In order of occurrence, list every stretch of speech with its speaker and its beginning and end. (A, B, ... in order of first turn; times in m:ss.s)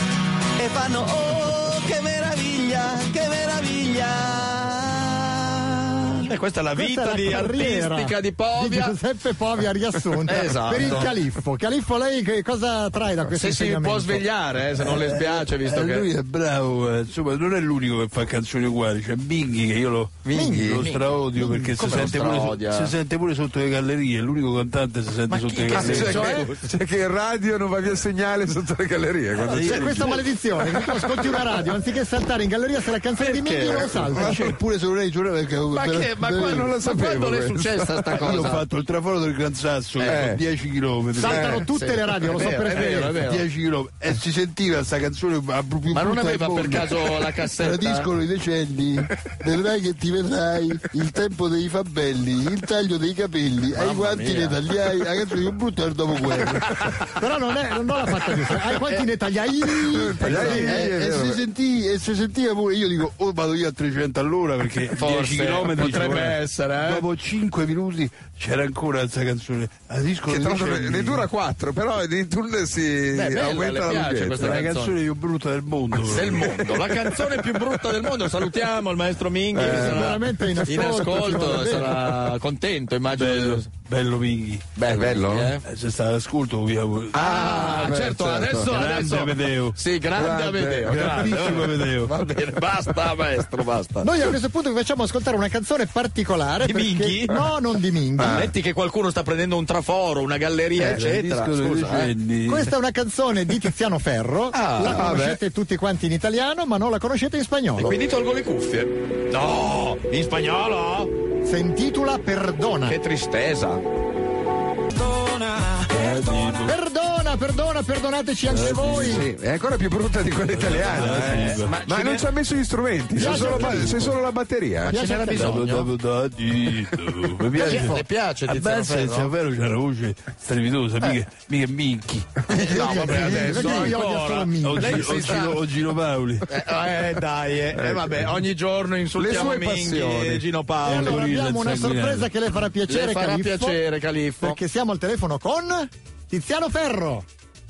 0:00.6-0:06.2 A
0:06.2-0:09.0 B
0:06.7-0:14.2 C
0:10.2-0:11.1 B
0:13.4-0:16.1 B
0:14.8-0:26.4 D
0:20.2-0:20.8 E
0:20.3-0:20.8 C
0:20.8-0:22.9 B
0:25.3-0:26.6 B
0:25.7-0:30.2 E
0:26.1-0:26.5 C
0:29.4-0:30.2 D
0:29.6-0:34.4 C
0:33.2-0:36.7 D
0:33.4-0:33.9 B
0:34.1-0:34.6 E
0:35.7-0:38.6 B
0:36.4-0:38.6 E
0:38.2-0:41.6 D
0:40.0-0:40.2 B
0:40.0-0:40.4 E
0:41.1-0:43.2 C
0:41.3-0:43.4 B
0:42.8-0:56.8 D
0:45.9-0:48.1 B
0:53.7-0:54.6 B
0:56.6-0:57.0 B
0:57.2-1:00.9 C
0:59.9-1:01.4 E
1:00.2-1:11.3 D
1:05.0-1:07.0 B
1:10.3-1:14.6 E
1:13.1-1:14.9 B
1:14.4-1:17.8 D
1:16.0-1:23.7 B
1:19.5-1:20.2 E
1:19.6-1:22.1 C
1:23.1-1:24.7 D
1:24.8-1:25.6 B
1:24.8-1:25.6 E
1:25.6-1:27.3 D
1:27.1-1:28.7 E
1:27.1-1:34.2 B
1:28.6-1:29.8 D
1:30.1-1:31.7 E
1:30.9-1:32.2 D
1:34.0-1:38.5 C
1:36.6-1:37.4 B
1:38.2-1:38.5 E
1:38.2-1:42.1 B
1:40.8-1:42.7 D
1:42.4-1:48.0 C
1:44.5-1:45.2 B
1:44.8-1:45.4 E
1:47.8-1:51.1 B
1:51.4-1:53.0 C
1:52.9-1:53.8 B
1:55.8-1:56.7 D
1:56.6-1:59.2 C
1:58.6-1:59.2 D
1:58.9-2:05.0 E
2:00.5-2:01.8 D
2:00.9-2:02.3 B
2:03.1-2:04.1 C
2:03.2-2:03.9 D
2:04.8-2:05.6 C
2:04.9-2:05.9 B
2:05.2-2:12.3 D
2:07.5-2:09.3 B
2:12.5-2:14.0 E
2:12.5-2:15.3 C
2:12.5-2:15.6 B
2:14.6-2:16.4 D
2:16.5-2:21.2 B
2:19.2-2:20.4 E
2:20.8-2:23.8 C
2:20.8-2:22.3 D
2:22.9-2:24.6 B
2:24.4-2:27.2 C